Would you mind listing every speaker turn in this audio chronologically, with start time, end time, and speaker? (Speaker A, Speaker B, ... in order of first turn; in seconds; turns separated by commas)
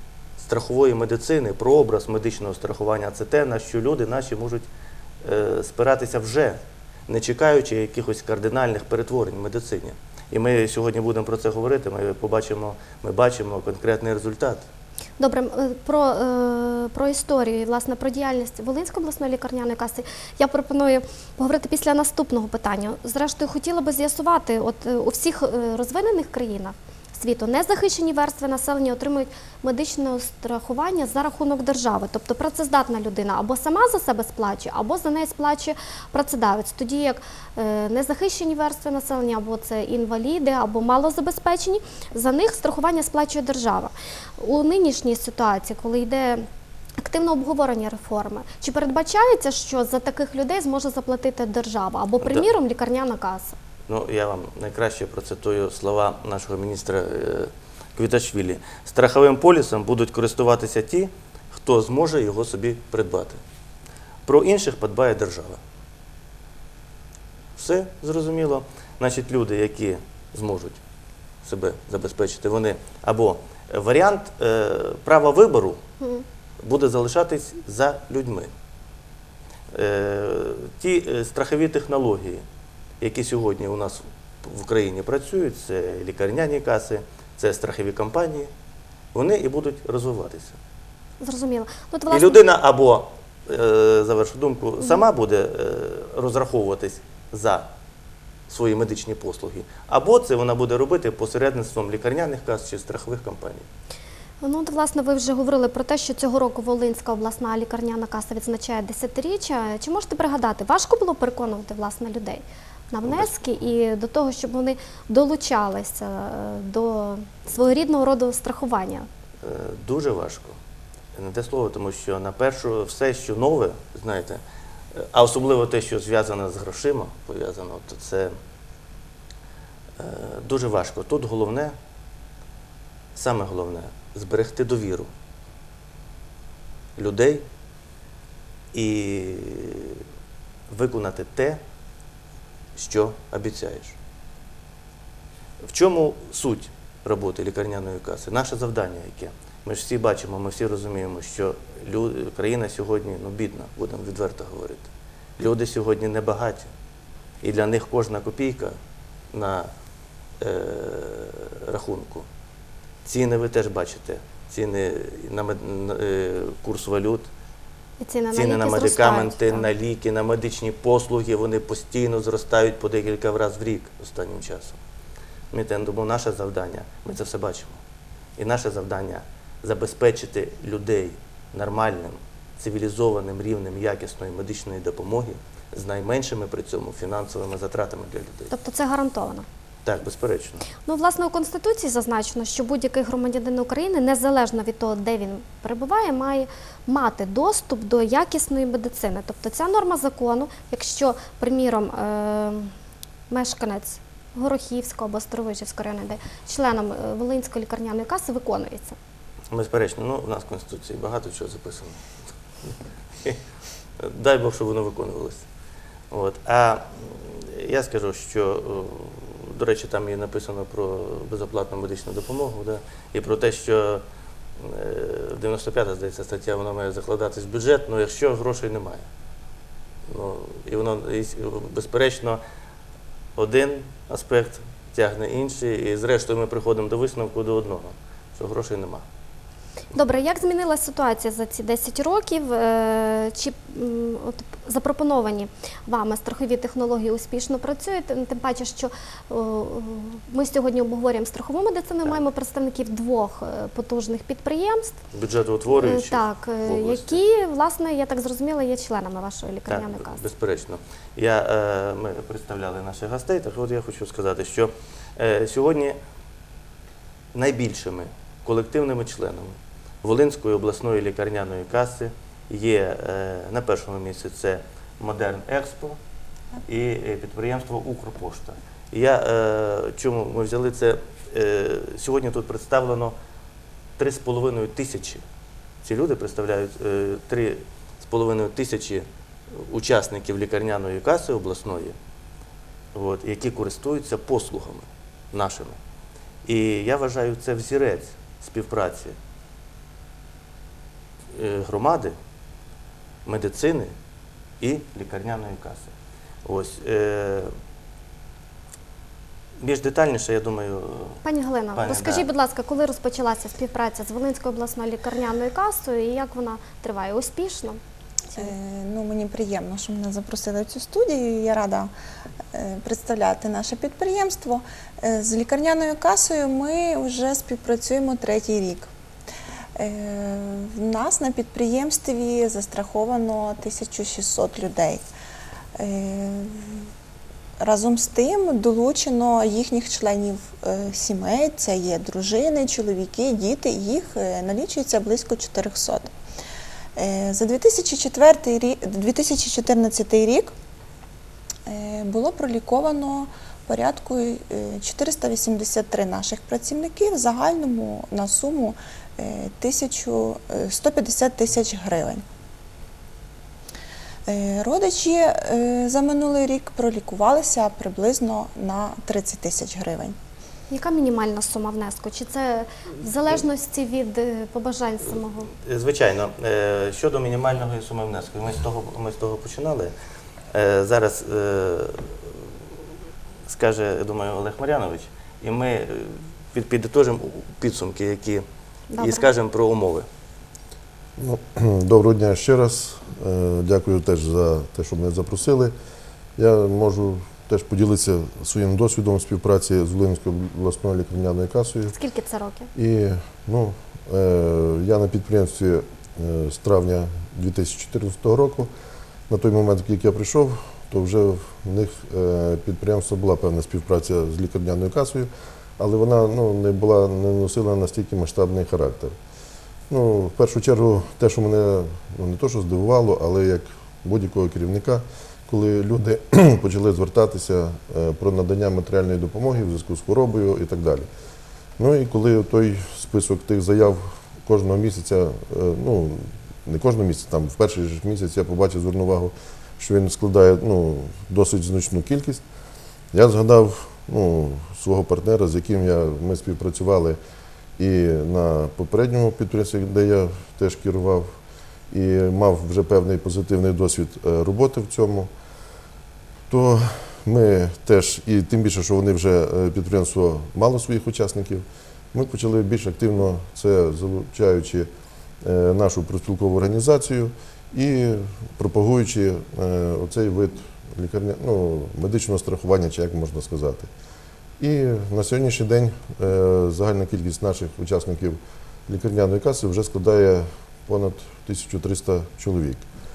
Speaker A: 0.4-4.7, Speaker A: 5.2-14.6, Speaker B: 15.2-46.5, Speaker B: 47.0-53.5, Speaker A: 52.2-52.5, Speaker A: 53.9-63.4, Speaker A: 64.2-65.6, Speaker A: 67.5-70.8, Speaker A: 71.4-75.8, Speaker A: 76.6-78.5, Speaker A: 79.7-82.4, Speaker A: 83.0-88.5, Speaker A: 89.1-90.6, Speaker B: 91.2-92.4, Speaker A: 92.1-97.7, Speaker A: 98.5-103.7, Speaker B: 104.4-119.1, Speaker A: 113.0-113.5, Speaker A: 119.4-120.6, Speaker A: 121.1-124.4, Speaker A: 124.9-128.3, Speaker A: 130.0-131.7, Speaker A: 133.2-135.1, Speaker A: 137.0-137.4, Speaker A: 138.7-140.0, Speaker A: 140.7-141.6, Speaker A: 142.8-143.9, Speaker A: 145.6-156.7, Speaker A: 157.4-158.7, Speaker A: 159.3-159.7, Speaker A: 160.4-162.3, Speaker A: 163.0-167.3, Speaker B: 168.0-169.7, Speaker A: 168.3-174.8, Speaker A: 175.5-177.8, Speaker A: 178.4-188.5, Speaker B: 188.5-189.4, Speaker A: 189.8-190.7, Speaker B: 190.8-202.7, Speaker B: 203.3-209.0, Speaker A: 209.5-212.1, Speaker A: 212.6-213.4, Speaker A: 214.0-215.4, Speaker A: 216.1-224.0, Speaker A: 224.6-229.1, Speaker A: 230.1-232.4, Speaker A: 233.3-239.0, Speaker B: 239.9-255.0, Speaker A: 255.1-257.2, Speaker B: 255.7-260.2, Speaker A: 259.7-266.0, Speaker A: 267.3-276.0, Speaker A: 276.6-283.1, Speaker A: 284.0-285.2, Speaker A: 285.8-291.9, Speaker A: 292.9-295.8, Speaker A: 296.4-299.1, Speaker A: 301.3-302.1, Speaker A: 303.2-303.9, Speaker A: 304.6-305.9, Speaker A: 306.4-307.5, Speaker A: 309.6-311.2, Speaker B: 311.2-317.8, Speaker A: 311.7-312.3, Speaker C: 318.4-321.9, Speaker C: 322.5-328.9, Speaker C: 329.8-335.0, Speaker C: 335.8-336.8, Speaker C: 337.6-346.1, Speaker C: 347.0-350.5, Speaker C: 351.7-362.2, Speaker C: 364.3-370.1, Speaker B: 370.7-375.5, Speaker A: 375.5-379.9, Speaker A: 380.5-382.4, Speaker A: 383.5-388.4, Speaker B: 388.9-389.2, Speaker A: 389.0-390.1, Speaker D: 391.2-395.7, Speaker D: 396.4-401.9, Speaker B: 401.9-402.7, Speaker D: 402.7-408.7, Speaker D: 409.3-419.1, Speaker D: 419.9-431.1, Speaker D: 431.8-442.4, Speaker D: 443.1-447.2, Speaker D: 447.8-451.4, Speaker D: 451.9-455.3, Speaker D: 456.5-464.9, Speaker D: 465.4-473.9, Speaker D: 474.6-482.8